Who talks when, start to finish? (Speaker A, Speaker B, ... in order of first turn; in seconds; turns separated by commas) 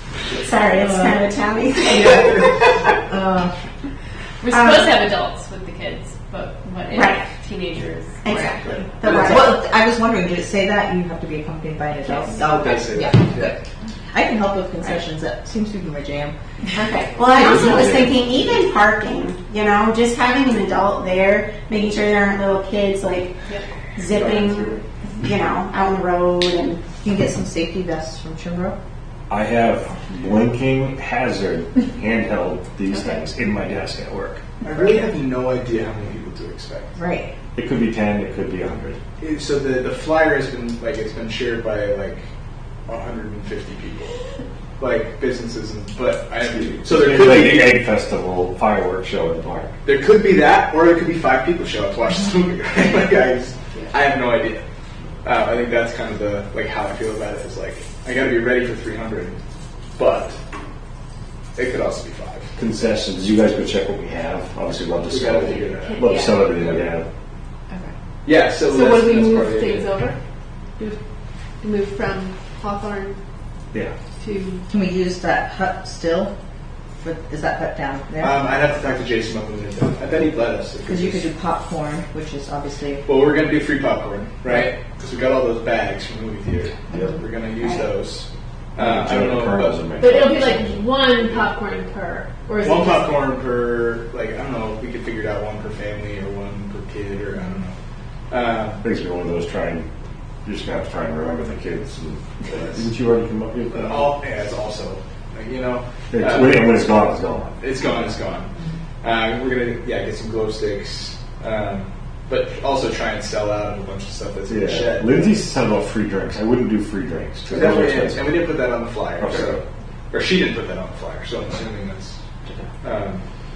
Speaker A: 0.3-2.5, Speaker B: 0.9-1.1, Speaker B: 3.1-3.5, Speaker C: 4.4-8.5, Speaker A: 4.5-5.0, Speaker A: 6.9-7.2, Speaker A: 8.2-9.5, Speaker B: 8.4-13.6, Speaker C: 12.1-12.5, Speaker D: 12.3-13.6, Speaker B: 14.1-16.4, Speaker A: 16.7-23.3, Speaker E: 17.3-18.4, Speaker A: 23.9-26.8, Speaker D: 24.1-24.8, Speaker B: 27.0-28.8, Speaker E: 29.3-35.1, Speaker C: 32.9-33.2, Speaker D: 34.6-37.0, Speaker B: 37.0-37.3, Speaker E: 37.6-39.0, Speaker D: 39.2-42.2, Speaker D: 42.9-44.2, Speaker D: 44.8-47.8, Speaker E: 46.7-49.7, Speaker D: 49.8-54.6, Speaker D: 55.2-59.4, Speaker D: 60.0-60.4, Speaker D: 61.5-62.5, Speaker E: 62.6-67.1, Speaker D: 65.1-66.0, Speaker C: 65.9-66.5, Speaker D: 66.5-66.9, Speaker D: 68.2-69.9, Speaker C: 68.6-70.2, Speaker C: 71.6-73.2, Speaker C: 74.2-74.6, Speaker B: 74.7-76.3, Speaker B: 77.0-78.7, Speaker D: 78.2-81.3, Speaker B: 80.9-83.2, Speaker D: 83.1-89.8, Speaker B: 84.4-84.7, Speaker B: 86.9-87.9, Speaker E: 88.8-90.8, Speaker C: 90.0-93.1, Speaker D: 92.6-97.8, Speaker D: 98.3-98.8, Speaker E: 98.8-99.9, Speaker E: 100.5-104.2, Speaker D: 103.8-106.7, Speaker E: 106.1-107.7, Speaker D: 107.6-115.1, Speaker E: 114.5-118.5, Speaker D: 117.5-119.6, Speaker E: 119.2-119.6, Speaker D: 120.1-122.2, Speaker D: 122.8-123.2